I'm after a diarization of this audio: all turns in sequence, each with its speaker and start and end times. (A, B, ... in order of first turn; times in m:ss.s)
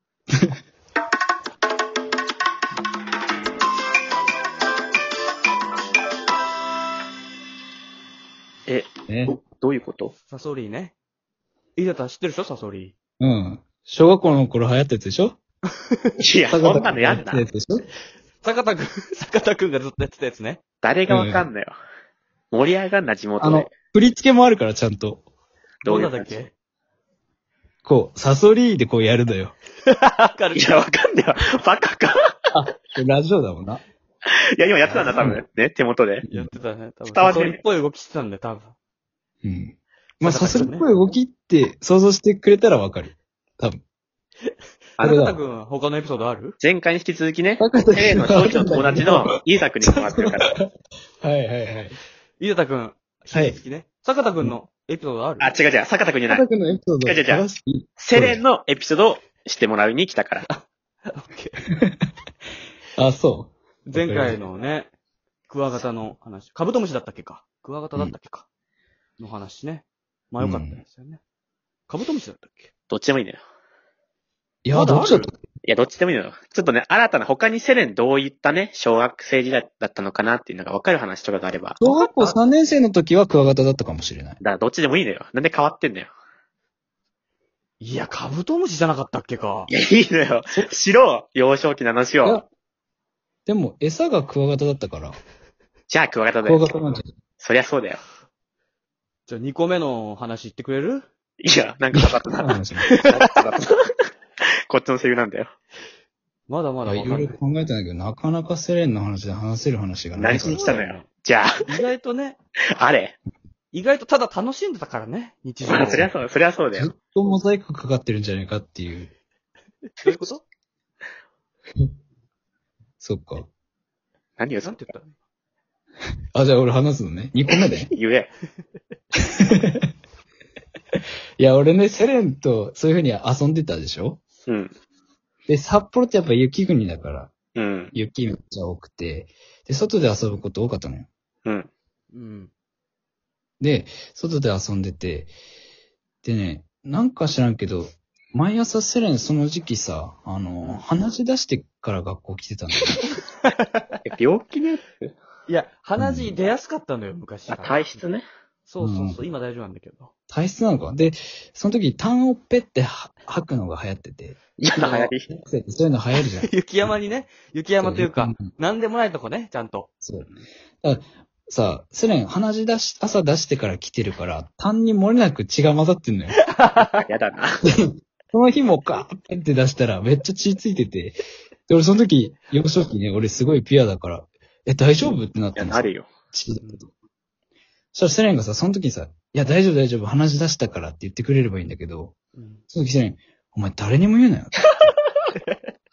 0:08.7-0:10.1 A
0:09.1-0:09.4 B
0:10.3-0:10.9 C
0:11.8-0:12.9 C
0:13.2-0:15.4 B
0:16.2-0:17.4 A
0:16.5-0:17.9 B
0:18.4-0:20.6 C
0:20.8-0:21.7 A
0:21.1-0:21.5 B
0:22.5-0:23.7 A
0:23.4-0:25.2 B
0:25.8-0:26.4 A
0:25.9-0:26.5 C
0:27.8-0:29.6 B
0:29.9-0:30.8 C
0:30.6-0:32.2 A
0:32.5-0:33.8 B
0:34.3-0:36.3 A
0:34.9-0:35.2 C
0:35.1-0:35.4 B
0:36.2-0:36.5 B
0:36.3-0:38.8 C
0:37.1-0:37.6 A
0:39.4-0:43.8 B
0:40.2-0:40.9 C
0:45.0-0:45.4 B
0:45.0-0:46.6 C
0:46.6-0:50.6 A
0:47.6-0:50.7 B
0:51.2-0:52.0 B
0:52.4-0:55.5 C
0:53.3-0:53.6 B
0:55.4-0:56.4 A
0:56.3-0:58.4 B
0:57.0-0:57.4 A
0:58.0-1:00.5 A
1:00.5-1:01.6 C
1:03.0-1:04.4 B
1:03.9-1:04.9 C
1:05.5-1:08.5 C
1:09.2-1:11.2 C
1:10.4-1:10.8 B
1:11.9-1:12.7 C
1:12.9-1:13.4 A
1:14.6-1:15.4 B
1:14.7-1:15.3 C
1:15.6-1:21.8 A
1:21.8-1:24.4 B
1:21.8-1:22.4 C
1:24.4-1:26.1 A
1:27.8-1:29.7 C
1:29.7-1:32.4 A
1:33.5-1:35.2 B
1:35.9-1:36.7 A
1:36.4-1:37.1 B
1:37.4-1:38.0 A
1:39.3-1:41.0 C
1:41.4-1:43.8 A
1:41.9-1:43.0 B
1:44.7-1:45.5 A
1:46.5-1:47.4 C
1:46.8-1:50.8 B
1:50.2-1:51.7 A
1:50.3-1:51.1 C
1:51.6-1:52.4 C
1:52.8-1:53.2 A
1:53.7-1:56.1 C
1:55.7-1:56.9 A
1:56.8-1:59.1 B
2:00.0-2:00.4 C
2:03.0-2:03.5 B
2:04.4-2:04.9 A
2:04.6-2:05.2 C
2:06.3-2:07.9 B
2:07.8-2:08.3 A
2:09.5-2:09.9 B
2:11.4-2:14.2 B
2:14.5-2:14.7 A
2:15.5-2:17.3 B
2:17.6-2:17.9 A
2:17.9-2:21.1 B
2:22.1-2:22.5 C
2:23.6-2:25.3 B
2:26.2-2:33.1 B
2:33.4-2:33.8 C
2:34.1-2:35.1 A
2:35.5-2:38.0 C
2:36.0-2:36.3 B
2:37.5-2:38.3 A
2:38.7-2:40.1 C
2:38.8-2:39.2 B
2:40.3-2:44.5 B
2:44.6-2:45.3 A
2:44.7-2:45.1 C
2:45.3-2:46.9 B
2:46.4-2:49.9 C
2:47.8-2:48.4 B
2:50.0-2:50.3 B
2:50.8-2:56.4 B
2:56.5-2:57.1 C
2:57.1-2:57.6 A
2:57.8-3:01.2 B
3:01.7-3:06.9 B
3:05.6-3:06.1 A
3:07.9-3:12.2 B
3:12.4-3:12.6 C
3:12.7-3:14.6 B